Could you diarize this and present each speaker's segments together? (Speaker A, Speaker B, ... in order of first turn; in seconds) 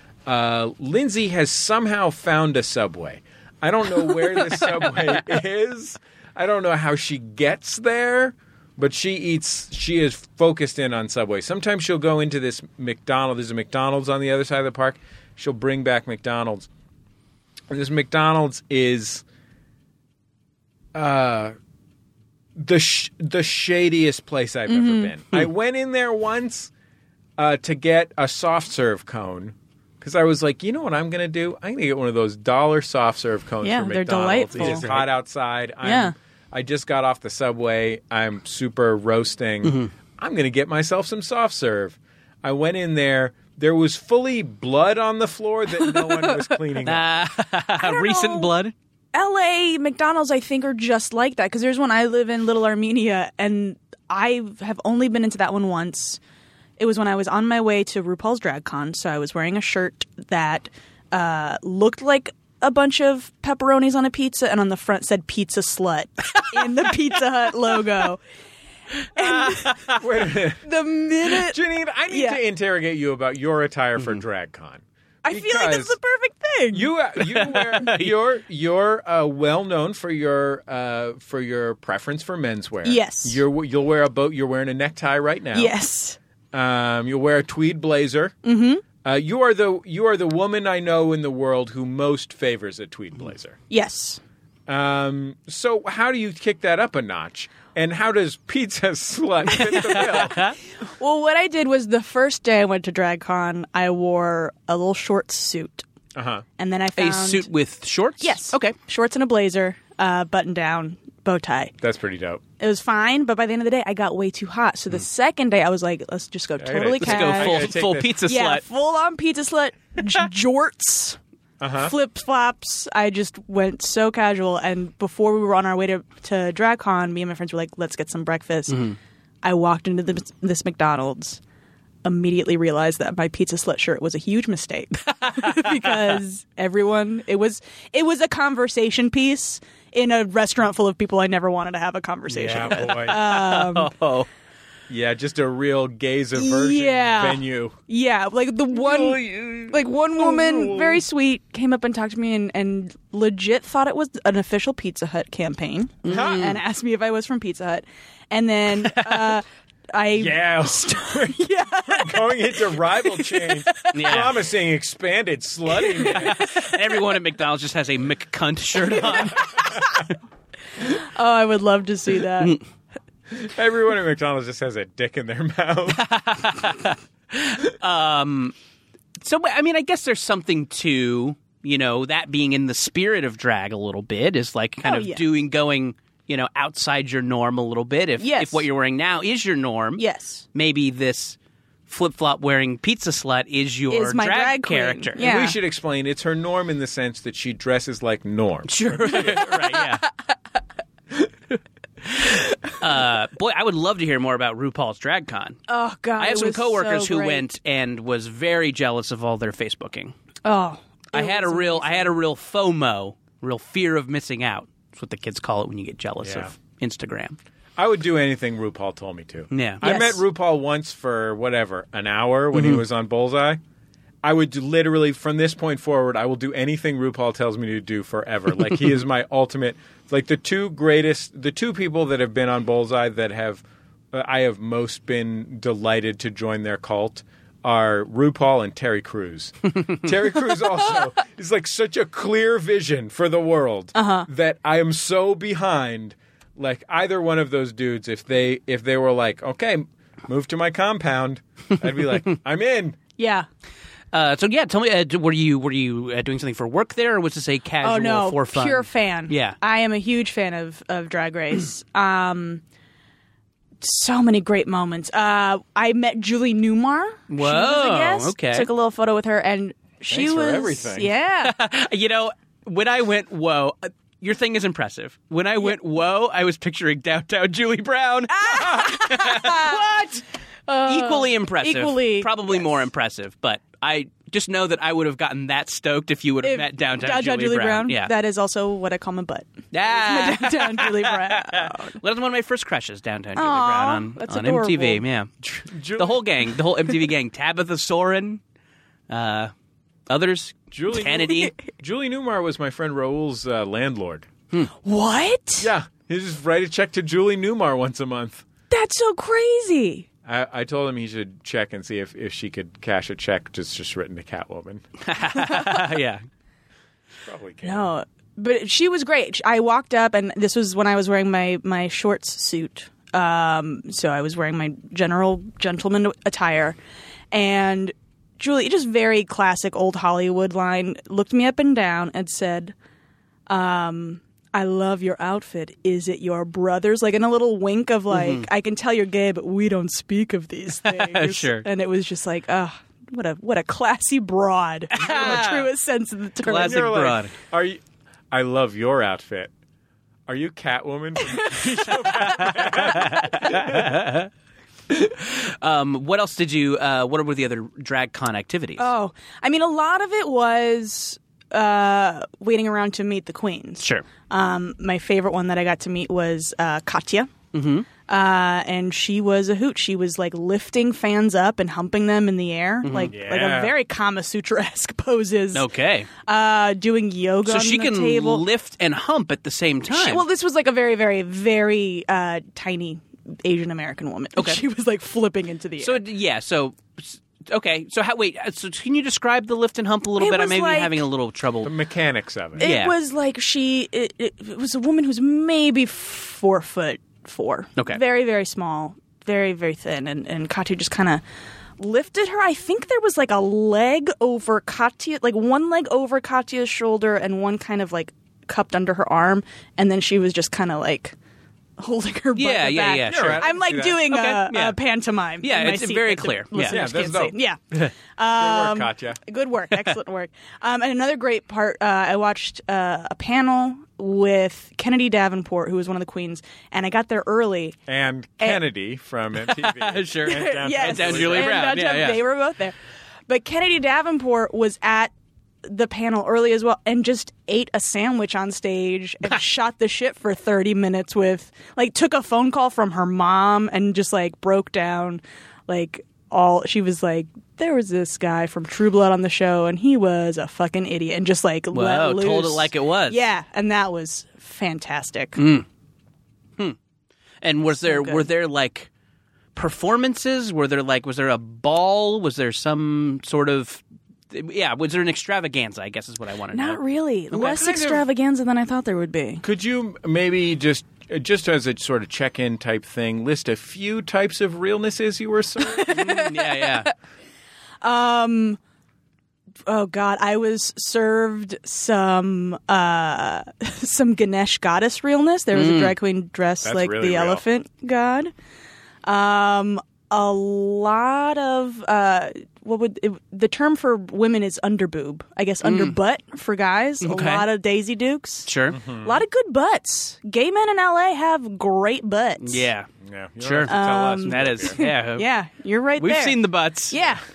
Speaker A: 0.2-16.7, 17.7-19.2, 20.9-21.6, 22.6-26.7, 27.4-47.0, 70.0-70.7, 71.3-76.0, 76.7-85.7, 86.5-88.3, 89.0-93.6, 94.7-100.5, 106.1-106.4, 111.8-112.4, 116.6-118.2, 121.6-121.9, 142.3-143.2, 144.9-147.8, 148.8-151.0, 156.1-156.5, 160.1-166.5, 169.1-169.7, 173.3-176.0, 195.2-199.5, 216.2-216.5, 217.8-223.6, 224.2-253.0, 270.1-271.1, 295.4-296.3, 300.7-304.3, 305.6-308.4, 310.2-314.8, 317.2-317.9, 345.1-345.4, 346.5-349.5, 350.3-354.0, 373.1-373.7, 391.6-392.7, 413.1-414.0, 416.6-417.4, 418.3-419.2, 427.9-431.6, 467.3-468.0, 469.4-475.9, 486.6-487.4, 498.7-499.2, 503.0-504.8
Speaker B: 4.5-4.8, 34.6-35.1, 39.6-39.9, 46.8-48.7, 69.6-70.0, 77.2-78.1, 99.9-100.5, 107.0-108.7, 117.0-118.6, 128.7-129.0, 135.1-136.1, 142.6-144.3, 156.0-156.6, 158.8-159.4, 163.9-164.3, 166.1-169.7, 175.9-178.5, 179.2-195.2, 198.7-200.1, 202.8-205.6, 206.2-210.1, 211.1-217.4, 219.5-219.9, 222.5-222.8, 254.1-259.6, 267.3-268.7, 271.4-280.2, 280.8-288.1, 289.7-295.3, 295.9-298.4, 299.1-299.5, 300.1-301.6, 315.1-316.2, 338.1-338.5, 340.8-341.7, 344.9-345.7, 346.4-347.3, 352.1-354.3, 355.1-358.9, 363.8-364.0, 367.5-367.9, 372.8-373.1, 375.5-376.1, 377.4-380.2, 385.8-391.7, 392.6-392.9, 412.4-414.8, 415.4-416.8, 429.5-432.2, 451.7-453.2, 455.4-455.6, 457.4-458.9, 459.5-466.8, 475.8-476.9, 485.5-485.9, 495.6-495.9, 497.0-497.5, 498.4-498.8, 502.4-502.9, 503.4-505.3, 506.0-507.0
Speaker C: 24.7-25.1, 33.6-34.9, 35.8-36.1, 45.8-46.5, 47.8-48.5, 49.1-56.2, 56.8-68.2, 69.1-70.0, 70.6-72.4, 75.2-76.9, 82.8-83.4, 85.5-86.2, 88.4-88.8, 93.7-94.2, 101.0-105.8, 106.6-107.5, 108.2-111.7, 112.6-121.2, 121.8-131.4, 132.0-143.9, 146.3-163.9, 165.8-166.3, 170.8-172.6, 184.8-185.2, 188.2-188.7, 190.0-190.4, 193.9-195.6, 205.7-207.5, 210.4-212.1, 219.8-220.2, 243.9-244.3, 253.2-253.5, 257.8-262.6, 263.8-271.5, 278.3-280.1, 280.7-282.7, 286.4-292.0, 293.3-295.0, 304.8-305.7, 308.7-310.1, 317.6-326.8, 327.3-332.7, 333.5-346.9, 358.8-367.3, 368.1-378.4, 379.9-386.0, 390.2-391.1, 392.6-401.2, 401.8-411.1, 411.8-417.6, 418.1-427.8, 430.3-432.8, 433.3-435.1, 435.6-455.4, 457.8-458.2, 466.5-469.4, 475.7-476.9, 477.8-478.6, 479.7-488.3, 489.0-502.6, 503.7-507.2